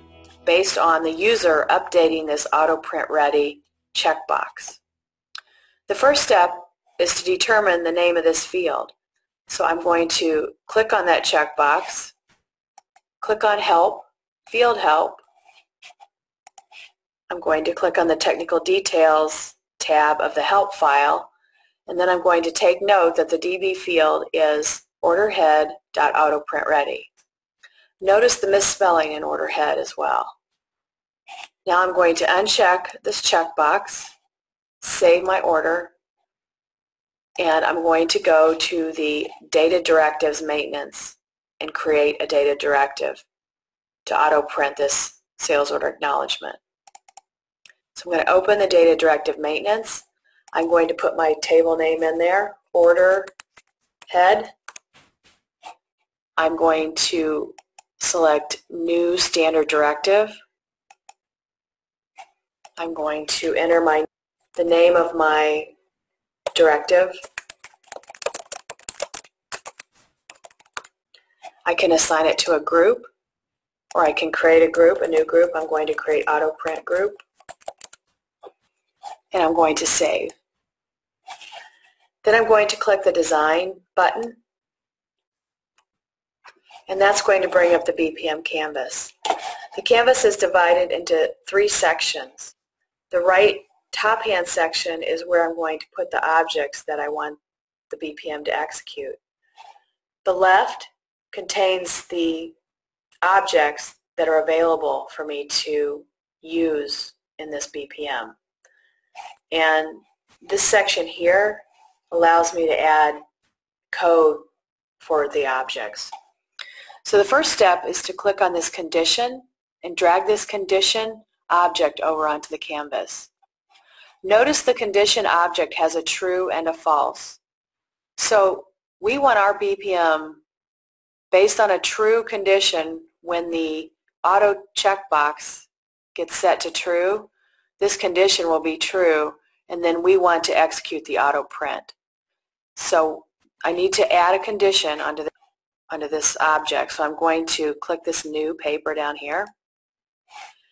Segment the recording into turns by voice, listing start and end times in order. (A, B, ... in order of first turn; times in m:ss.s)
0:00.4-0:04.8 A
0:05.9-0:09.0 A
0:09.5-0:12.1 A
0:13.2-0:15.2 A
0:17.3-0:21.3 A
0:21.9-0:27.1 A
0:28.0-0:30.4 A
0:31.7-0:34.1 A
0:34.8-0:36.0 A
0:37.4-0:43.2 A
0:44.1-0:46.6 A
0:48.0-0:53.3 A
0:54.1-0:54.5 A
0:56.4-1:00.4 A
1:02.8-1:05.7 A
1:06.5-1:07.2 A
1:11.7-1:13.1 A
1:13.9-1:17.2 A
1:19.3-1:20.4 A
1:22.2-1:24.4 A
1:26.9-1:29.1 A
1:29.8-1:32.6 A
1:33.1-1:37.4 A
1:37.9-1:39.2 A
1:40.2-1:42.6 A
1:43.2-1:48.4 A
1:49.5-1:53.2 A
1:53.9-1:54.5 A
1:55.0-1:56.1 A
1:57.0-2:03.3 A
2:04.2-2:07.4 A
2:08.2-2:10.4 A
2:11.3-2:22.0 A
2:22.8-2:25.3 A
2:25.9-2:29.5 A